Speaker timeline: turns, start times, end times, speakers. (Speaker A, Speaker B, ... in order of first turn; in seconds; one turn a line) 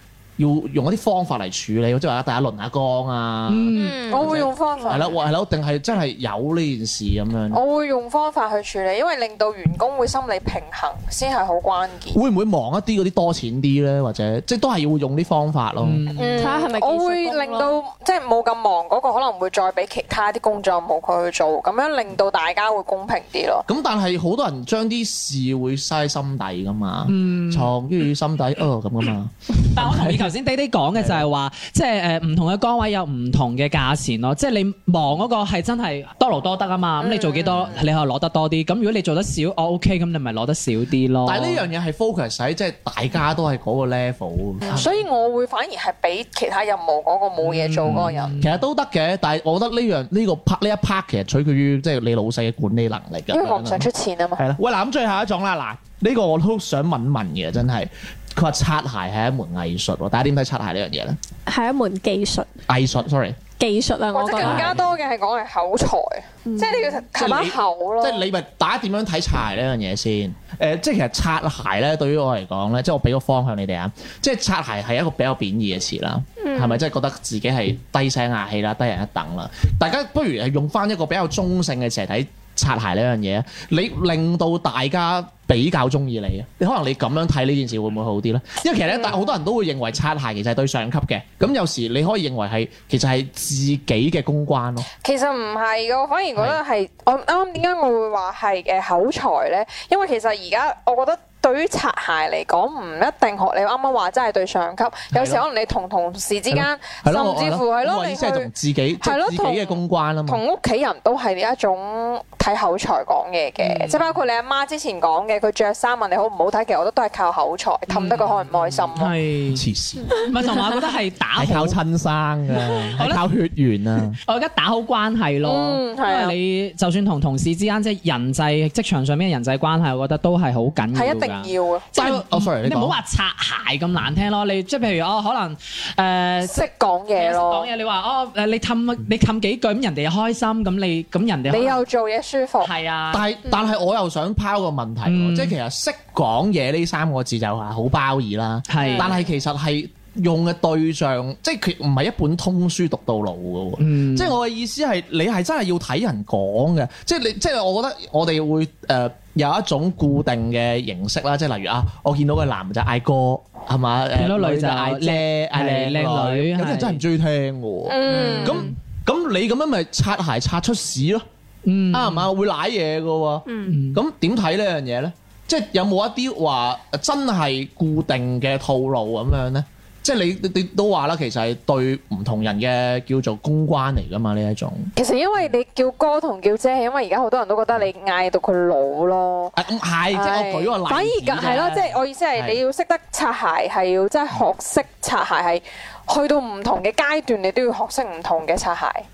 Speaker A: 0.4-7.6
Speaker B: 3.5-4.0
Speaker C: 3.8-4.2
Speaker D: 4.1-5.2
Speaker D: 7.5-12.2
Speaker A: 12.1-16.0
Speaker B: 15.8-16.5
Speaker D: 16.1-23.6
Speaker C: 16.4-17.7
Speaker A: 23.7-30.3
Speaker B: 27.1-27.7
Speaker B: 29.6-41.6
Speaker A: 30.9-31.3
Speaker D: 37.0-37.8
Speaker A: 41.2-45.0
Speaker D: 44.6-48.3
Speaker B: 47.4-48.6
Speaker A: 47.9-61.2
Speaker D: 53.3-54.4
Speaker C: 61.5-62.5
Speaker A: 62.7-63.4
Speaker C: 63.6-64.7
Speaker D: 64.1-68.2
Speaker A: 64.4-64.8
Speaker C: 66.5-67.0
Speaker A: 67.1-94.9
Speaker C: 76.4-76.8
Speaker D: 88.9-89.3
Speaker D: 95.0-108.5
Speaker A: 105.1-105.4
Speaker A: 106.5-110.4
Speaker D: 109.0-119.1
Speaker B: 113.6-114.1
Speaker B: 117.9-119.6
Speaker A: 119.5-120.2
Speaker B: 120.2-121.8
Speaker A: 121.3-124.2
Speaker B: 123.0-123.3
Speaker B: 124.3-141.8
Speaker D: 125.4-126.3
Speaker D: 130.9-131.9
Speaker A: 131.9-133.0
Speaker D: 136.4-137.7
Speaker D: 141.5-142.7
Speaker B: 142.6-143.2
Speaker A: 143.1-171.2
Speaker B: 145.0-145.5
Speaker B: 148.7-149.1
Speaker D: 148.8-149.1
Speaker B: 153.8-154.3
Speaker B: 164.2-167.0
Speaker D: 167.8-168.6
Speaker B: 168.1-168.6
Speaker B: 171.7-172.3
Speaker A: 171.9-184.9
Speaker C: 173.5-173.7
Speaker B: 173.7-174.0
Speaker D: 184.9-189.5
Speaker A: 189.6-191.7
Speaker D: 190.1-199.1
Speaker B: 191.4-191.9
Speaker A: 192.3-192.6